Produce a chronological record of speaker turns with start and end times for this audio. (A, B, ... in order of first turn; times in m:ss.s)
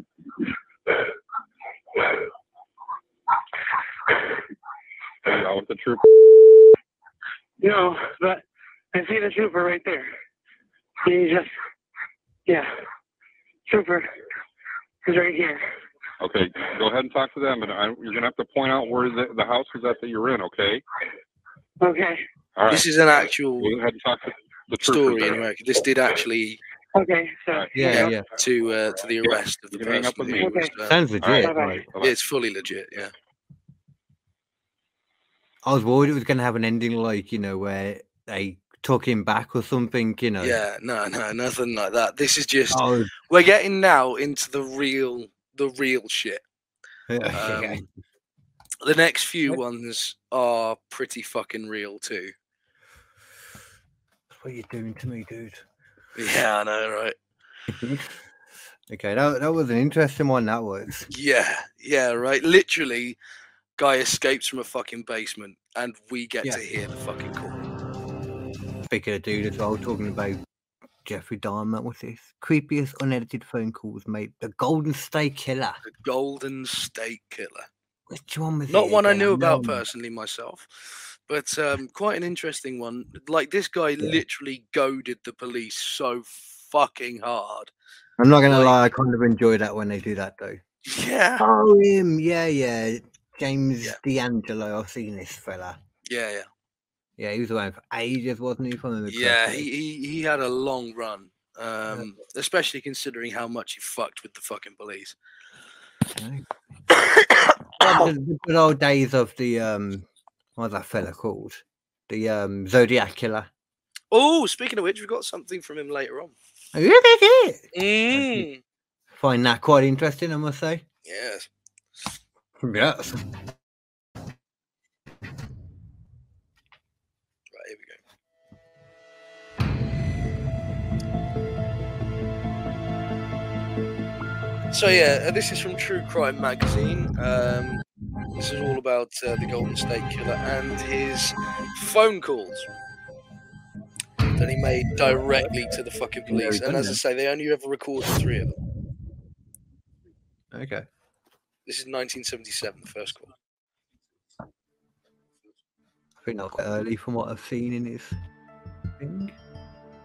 0:05.2-0:06.0 A
0:07.6-0:10.1 B
0:11.0-0:11.5 B
0:13.7-0:14.1 B
0:15.0-0:15.6 B
0:16.2-0:20.8 A
0:21.8-0:22.2 B
0:22.6-0:25.4 A
0:22.7-0:23.8 C
0:24.8-0:26.6 C
0:27.0-0:28.0 B
0:27.5-0:27.9 A
0:27.7-0:28.2 D
0:27.8-0:31.0 C
0:29.2-0:30.6 A
0:30.4-0:30.7 B
0:30.8-0:31.9 D
0:31.2-0:32.2 A
0:31.4-0:31.8 B
0:32.0-0:33.1 C
0:35.6-0:40.6 D
0:40.4-0:46.4 C
0:42.7-0:43.1 D
0:47.1-0:47.9 D
0:47.3-0:47.8 C
0:48.8-0:52.3 C
0:54.3-0:55.6 D
0:56.2-0:57.2 C
0:57.7-0:58.2 D
0:58.9-1:01.1 D
1:01.1-1:03.2 C
1:03.8-1:07.7 C
1:08.9-1:10.4 D
1:11.0-1:15.8 D
1:15.8-1:17.7 C
1:18.1-1:19.8 D
1:18.7-1:27.7 C
1:28.2-1:30.6 D
1:28.5-1:28.8 C
1:30.9-1:31.4 C
1:31.4-1:35.8 D
1:36.1-1:36.5 C
1:37.2-1:39.7 D
1:39.1-1:45.2 C
1:46.2-1:46.5 D
1:47.8-1:53.5 D
1:54.1-1:56.4 C
1:56.7-1:58.5 D
1:57.7-1:58.6 C
1:59.1-2:00.8 D
2:01.0-2:01.5 C
2:02.6-2:03.2 D
2:07.5-2:08.0 C
2:14.7-2:17.8 C
2:18.4-2:22.7 C
2:24.4-2:28.6 C
2:26.3-2:27.0 D
2:30.5-2:30.9 D
2:31.7-2:33.3 C
2:36.2-2:38.2 D
2:39.0-2:39.4 D